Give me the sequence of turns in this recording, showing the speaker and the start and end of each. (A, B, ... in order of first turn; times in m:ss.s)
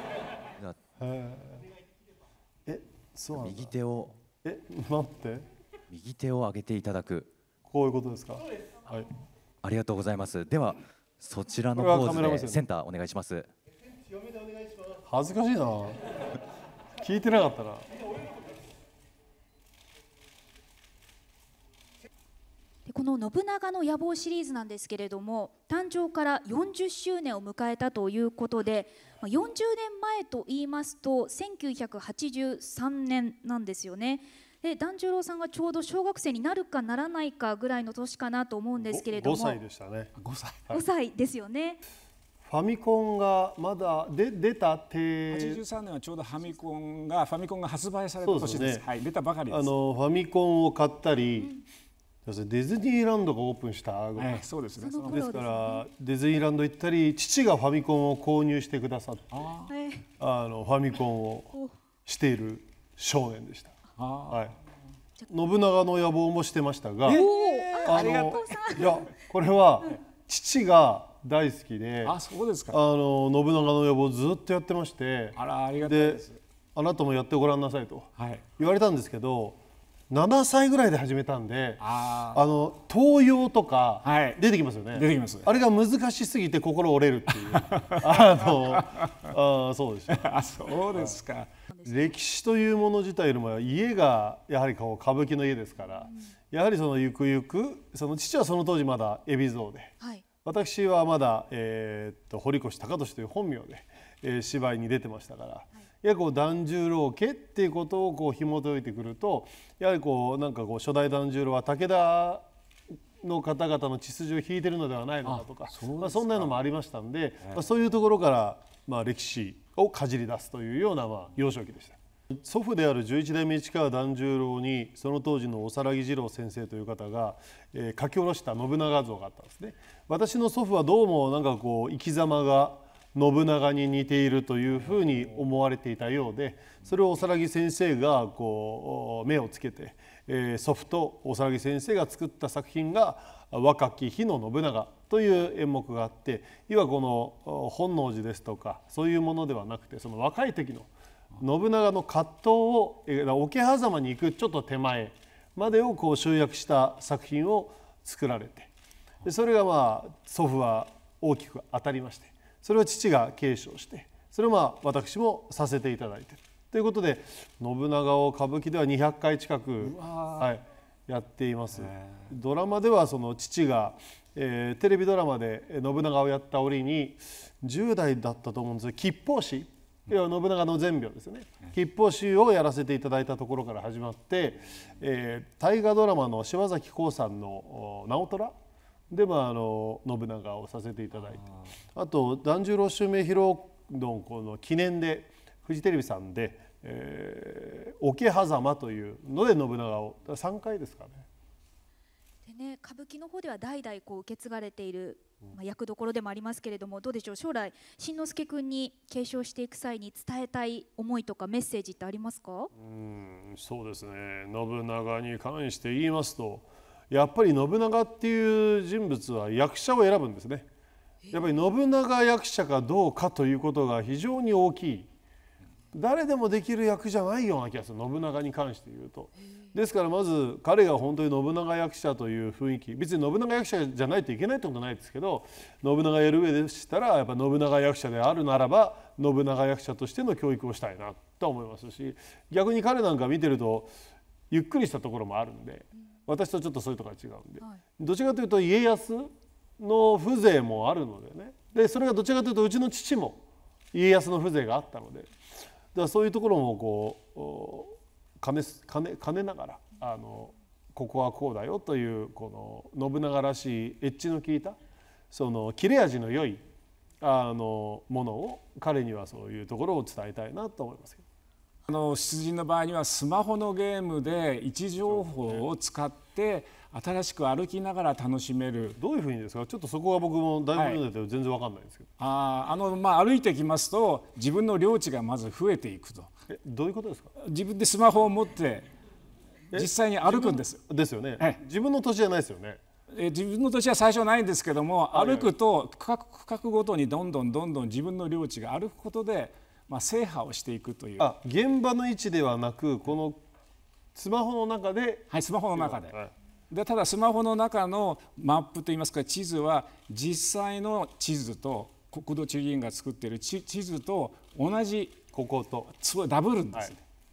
0:01.0-0:01.6 A
0:02.7-0:03.8 A
0:03.4-0:04.2 B
0:04.4-0:05.4 A
0:05.9-0:07.3 B
0:07.6-0:09.1 A
0:09.6-0:13.5 B
0:11.8-0:12.6 A
0:15.0-0:16.0 A
0:17.0-0:17.8 A
0:22.9-0:39.6 C
0:23.6-0:33.0 D
0:33.6-0:34.0 D
0:34.6-0:39.1 D
0:38.8-0:40.1 A
0:40.2-0:41.8 C
0:42.5-0:45.6 A
0:45.3-0:49.7 C
0:48.2-0:48.8 A
0:49.5-0:51.5 A
0:52.2-0:54.4 A
0:54.2-0:55.6 C
0:54.8-0:55.8 D
0:55.0-0:59.5 A
0:59.3-1:00.0 C
1:00.2-1:01.5 A
1:02.0-1:03.8 A
1:04.0-1:04.4 C
1:04.3-1:04.6 A
1:05.3-1:12.2 A
1:07.0-1:09.1 C
1:07.1-1:09.0 D
1:12.0-1:12.8 C
1:12.7-1:19.6 A
1:15.4-1:16.4 C
1:18.2-1:18.4 C
1:20.1-1:30.2 A
1:21.8-1:22.4 C
1:24.0-1:24.4 C
1:24.9-1:25.5 C
1:27.3-1:29.3 C
1:30.1-1:32.1 C
1:30.9-1:31.2 A
1:31.9-1:39.9 A
1:40.4-1:52.4 A
1:53.2-2:38.7 A
1:55.3-1:56.5 C
2:39.2-3:08.5 A
2:49.8-2:50.5 C
2:51.8-2:52.3 C
3:09.1-3:11.4 A
3:12.0-3:21.3 A
3:22.5-3:32.7 D
3:23.8-3:24.4 C
3:25.5-3:26.4 C
3:32.7-3:40.7 A
3:41.3-3:45.1 A
3:45.9-4:03.9 A
4:04.5-4:13.4 A
4:13.9-4:15.3 A
4:15.9-4:24.8 A
4:25.3-4:26.6 A
4:27.2-4:31.2 A
4:31.9-4:39.0 C
4:35.1-4:35.6 A
4:39.0-4:42.1 A
4:40.8-4:41.0 C
4:42.2-4:46.3 C
4:46.5-4:47.3 A
4:47.4-4:48.9 C
4:49.7-4:52.8 A
4:49.7-4:50.8 C
4:53.1-5:01.3 C
4:55.1-4:55.5 A
5:01.2-5:03.4 A
5:04.2-5:06.3 A
5:05.3-5:06.2 C
5:06.7-5:15.2 C
5:15.3-5:15.9 A
5:16.0-5:17.0 C